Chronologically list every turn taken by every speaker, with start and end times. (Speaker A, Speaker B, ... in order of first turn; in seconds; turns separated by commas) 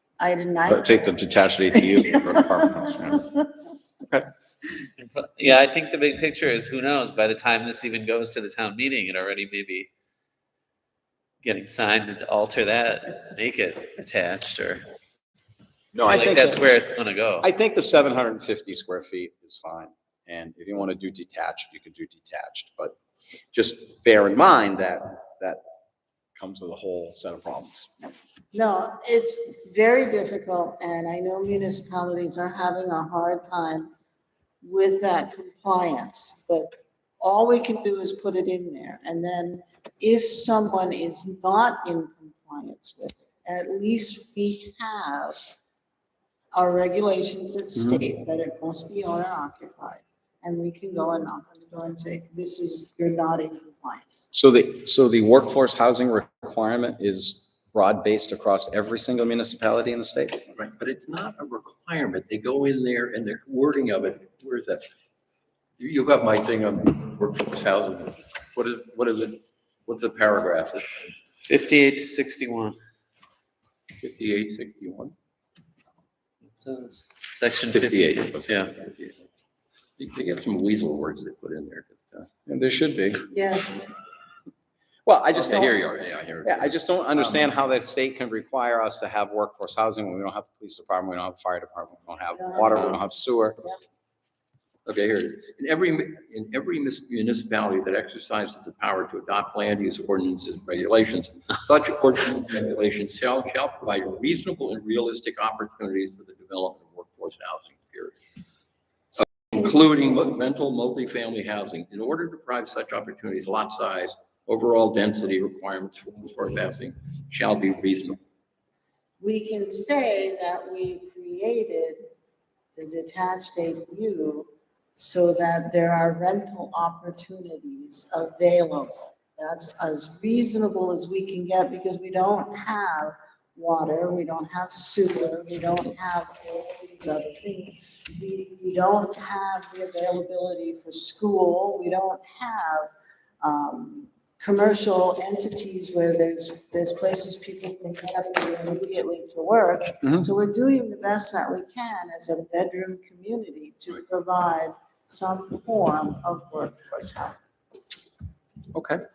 Speaker A: 0.2-1.0, Speaker B: 0.7-3.3, Speaker A: 1.7-2.6, Speaker C: 5.0-9.9, Speaker C: 11.4-14.8, Speaker B: 15.9-16.6, Speaker C: 16.1-17.5, Speaker B: 17.4-23.0, Speaker B: 23.5-25.6, Speaker B: 26.4-27.9, Speaker A: 28.1-33.9, Speaker A: 34.6-45.5, Speaker A: 46.5-54.3, Speaker B: 54.3-60.5, Speaker D: 60.6-64.8, Speaker D: 65.8-71.2, Speaker C: 71.4-72.8, Speaker D: 74.0-75.1, Speaker C: 76.5-78.8, Speaker D: 77.7-79.2, Speaker D: 80.0-82.3, Speaker B: 82.5-83.3, Speaker A: 83.3-83.9, Speaker B: 85.1-85.7, Speaker D: 85.3-87.5, Speaker B: 86.4-93.6, Speaker A: 92.3-93.0, Speaker D: 94.8-108.2, Speaker D: 109.2-118.2, Speaker A: 119.2-122.1, Speaker A: 122.8-142.9, Speaker A: 143.4-157.4, Speaker B: 150.0-150.3, Speaker B: 158.7-159.0